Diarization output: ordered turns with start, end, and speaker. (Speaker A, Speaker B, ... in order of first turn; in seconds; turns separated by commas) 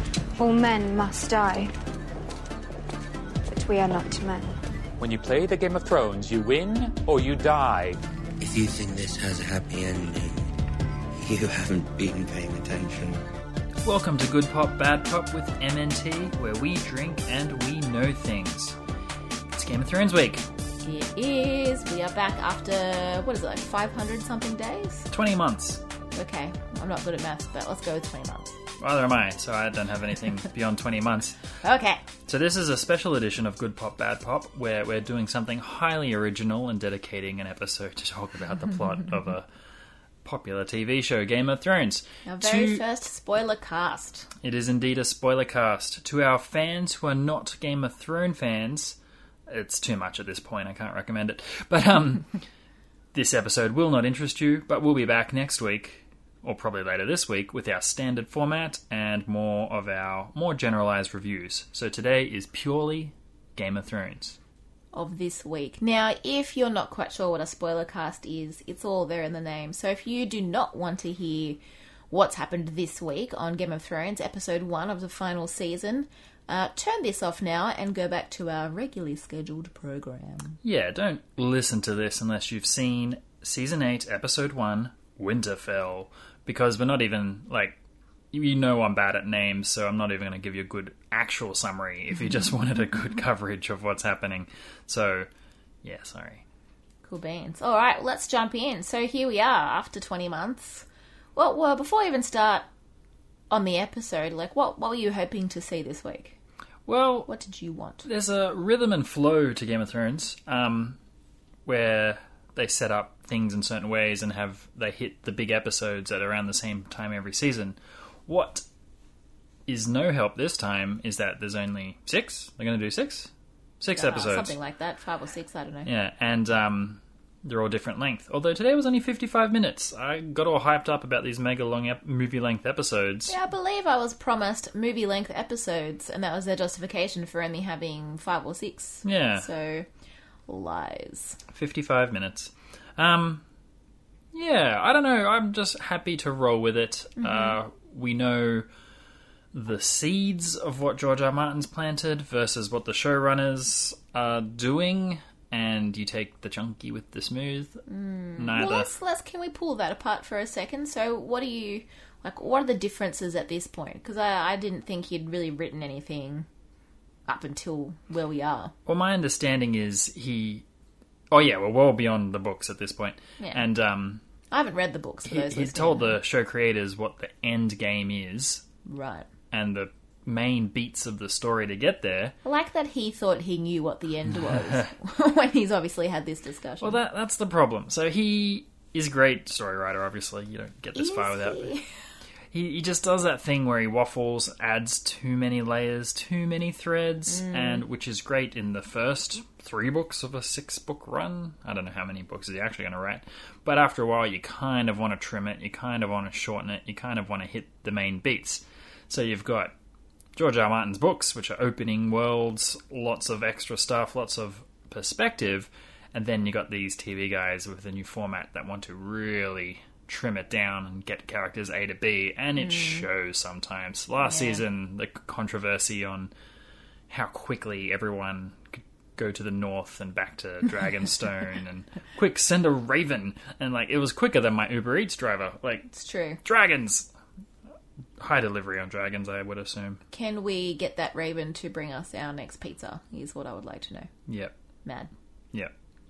Speaker A: 0.3-1.7, Speaker A: 3.5-4.5, Speaker B: 5.0-8.0, Speaker C: 8.4-10.5, Speaker C: 11.1-13.2, Speaker D: 13.8-18.8, Speaker D: 19.5-20.4, Speaker E: 20.8-25.1, Speaker D: 25.1-25.8, Speaker E: 26.1-28.6, Speaker D: 28.8-31.4, Speaker E: 31.6-32.0, Speaker D: 32.3-39.5, Speaker D: 40.2-42.8, Speaker E: 42.2-44.3, Speaker D: 44.4-52.3, Speaker D: 53.1-64.4, Speaker E: 64.9-80.6, Speaker D: 80.6-87.8, Speaker D: 88.3-95.3, Speaker D: 95.8-96.4, Speaker E: 97.0-102.7, Speaker E: 103.5-106.4, Speaker D: 106.9-107.3, Speaker E: 107.3-108.0, Speaker D: 108.0-111.0, Speaker D: 111.7-118.6, Speaker D: 119.7-123.3, Speaker D: 123.8-124.5, Speaker E: 123.9-125.9, Speaker D: 125.8-133.3, Speaker E: 133.3-139.9, Speaker D: 139.0-139.5, Speaker E: 140.5-141.4, Speaker D: 141.5-143.4, Speaker D: 144.3-148.7, Speaker E: 147.2-147.6, Speaker D: 149.5-157.8, Speaker E: 157.9-166.5, Speaker D: 158.4-158.9, Speaker E: 167.3-168.7, Speaker D: 168.8-170.6, Speaker D: 171.3-174.2, Speaker E: 173.4-173.6, Speaker E: 174.5-176.2, Speaker D: 175.2-178.6, Speaker E: 178.8-179.3, Speaker D: 179.5-182.3, Speaker E: 182.4-187.0, Speaker D: 184.4-184.8, Speaker D: 186.8-191.7, Speaker E: 190.9-191.8, Speaker D: 192.5-209.7, Speaker E: 197.3-197.8, Speaker D: 210.3-226.3, Speaker E: 222.6-223.1, Speaker E: 224.2-224.6, Speaker D: 227.1-235.9, Speaker E: 235.9-236.4, Speaker D: 236.4-237.1, Speaker D: 238.2-240.0, Speaker E: 240.1-244.1, Speaker D: 244.3-244.5, Speaker E: 244.8-245.1